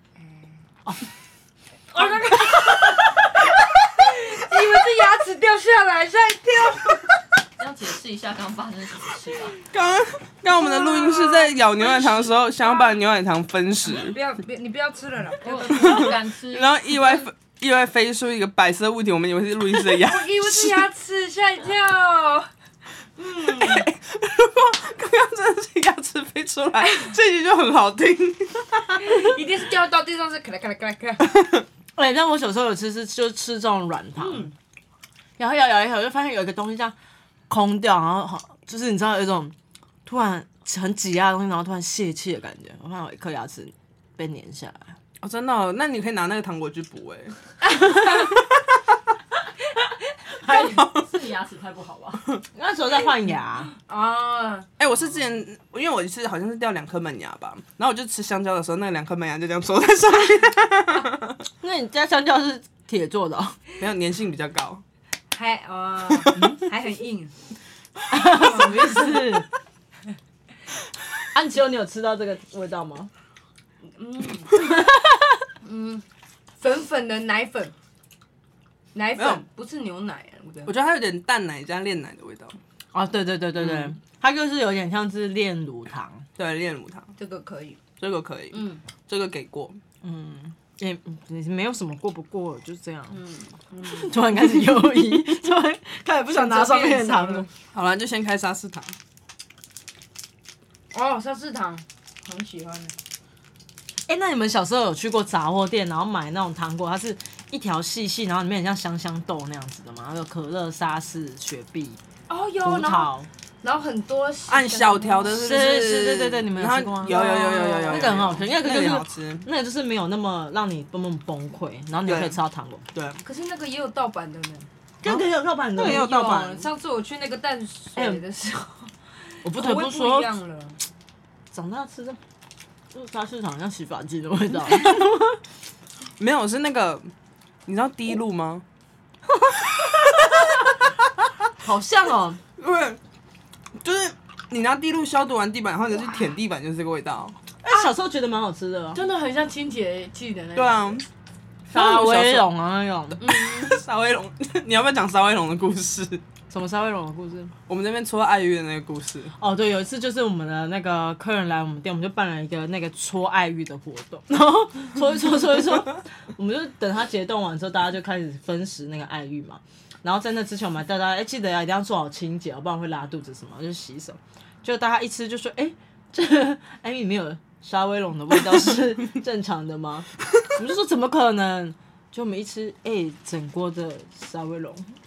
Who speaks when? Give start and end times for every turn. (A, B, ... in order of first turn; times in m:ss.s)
0:01.9-0:03.3 A
0:03.9-0:07.1 A
0:07.6-0:09.6 B
0:09.7-0:14.2 C
0:10.5-0:12.9 A
0:13.9-0:16.2 A
0:15.4-0:17.0 B
0:15.7-0:20.9 C
0:19.9-0:22.5 A
0:23.2-0:23.9 A
0:23.4-0:29.4 C
0:29.0-0:31.5 A
0:32.0-0:34.5 D
0:34.2-0:34.5 A
0:35.4-0:36.9 D
0:37.5-0:39.5 D
0:40.1-0:45.0 D
0:45.2-0:47.4 C
0:48.1-0:48.4 C
0:50.4-0:52.3 B
0:50.6-0:51.1 C
0:52.5-0:53.7 D
0:53.8-0:54.7 A
0:54.8-1:01.4 C
1:01.6-1:03.6 D
1:03.8-1:04.8 C
1:05.3-1:07.3 A
1:08.1-1:09.5 D
1:08.2-1:09.1 A
1:11.3-1:13.1 D
1:13.9-1:14.6 A
1:14.5-1:15.4 D
1:15.6-1:16.0 A
1:16.6-1:17.7 A
1:18.9-1:20.7 A
1:19.2-1:19.4 C
1:20.7-1:22.6 C
1:22.9-1:26.3 D
1:23.6-1:23.9 C
1:26.4-1:27.1 C
1:27.2-1:27.8 A
1:28.0-1:29.8 C
1:28.5-1:28.8 A
1:30.0-1:33.2 D
1:33.1-1:34.2 A
1:33.9-1:37.5 D
1:36.3-1:37.5 A
1:37.7-1:39.0 C
1:40.9-1:43.0 A
1:44.1-1:52.0 D
1:52.3-1:53.1 A
1:52.6-1:53.3 D
1:53.6-1:55.4 A
1:54.5-1:59.5 C
1:55.3-2:02.8 D
1:57.0-1:58.2 A
2:02.1-2:02.4 C
2:02.9-2:03.2 C
2:03.2-2:04.7 A
2:05.0-2:06.6 D
2:05.0-2:06.6 C
2:05.8-2:10.8 A
2:08.0-2:08.2 D
2:09.4-2:10.3 D
2:11.5-2:12.2 D
2:12.9-2:15.4 D
2:16.2-2:17.1 C
2:17.7-2:18.6 C
2:19.8-2:20.7 C
2:21.6-2:22.4 D
2:22.6-2:23.0 C
2:23.8-2:27.4 C
2:27.6-2:29.1 D
2:29.0-2:30.8 A
2:30.5-2:31.1 C
2:31.7-2:32.5 C
2:31.7-2:33.3 D
2:33.2-2:33.8 A
2:33.3-2:36.2 C
2:36.5-2:37.6 D
2:37.7-2:39.4 C
2:39.4-3:05.0 D